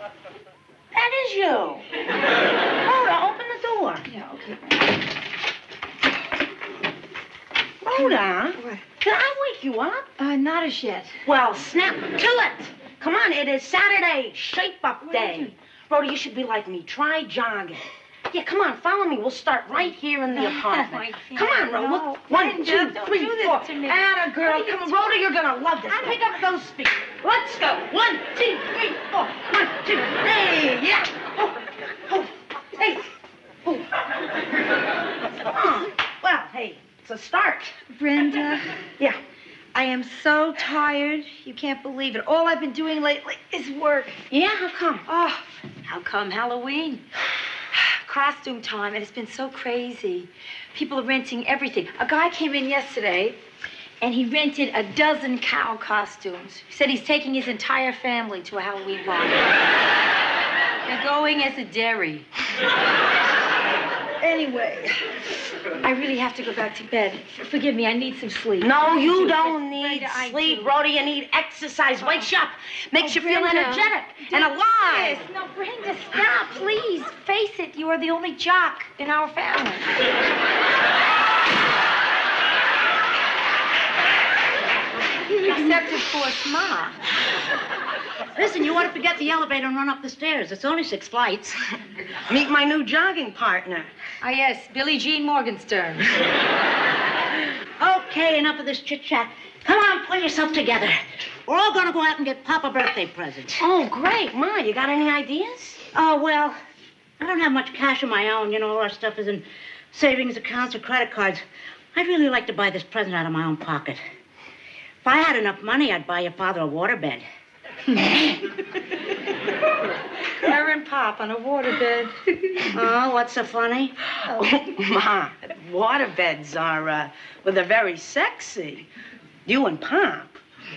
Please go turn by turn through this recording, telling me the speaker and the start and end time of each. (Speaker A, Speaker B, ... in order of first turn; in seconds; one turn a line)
Speaker A: 0.9-1.8
Speaker A: 2.8-4.0
Speaker B: 4.1-4.6
Speaker A: 7.8-10.1
Speaker B: 7.9-8.8
Speaker B: 10.2-11.2
Speaker A: 11.2-33.0
Speaker B: 15.0-15.5
Speaker B: 20.3-25.2
Speaker A: 35.5-37.7
Speaker B: 37.9-38.6
Speaker B: 39.7-44.2
Speaker A: 44.3-45.0
Speaker B: 45.0-47.0
Speaker B: 47.7-53.4
Speaker B: 54.0-59.5
Speaker B: 60.9-62.2
Speaker A: 64.2-64.9
Speaker B: 65.8-70.7
Speaker A: 68.6-75.2
Speaker B: 72.0-72.3
Speaker B: 73.0-79.9
Speaker C: 85.3-85.9
Speaker B: 85.4-87.0
Speaker C: 88.3-91.6
Speaker A: 92.3-93.9
Speaker B: 94.2-96.0
Speaker C: 97.8-103.6
Speaker A: 103.5-105.8
Speaker C: 105.9-106.6
Speaker C: 107.2-111.4
Speaker C: 111.9-114.0
Speaker C: 115.0-117.2
Speaker B: 120.4-122.7
Speaker C: 122.7-123.9
Speaker A: 124.2-128.9
Speaker A: 129.4-130.4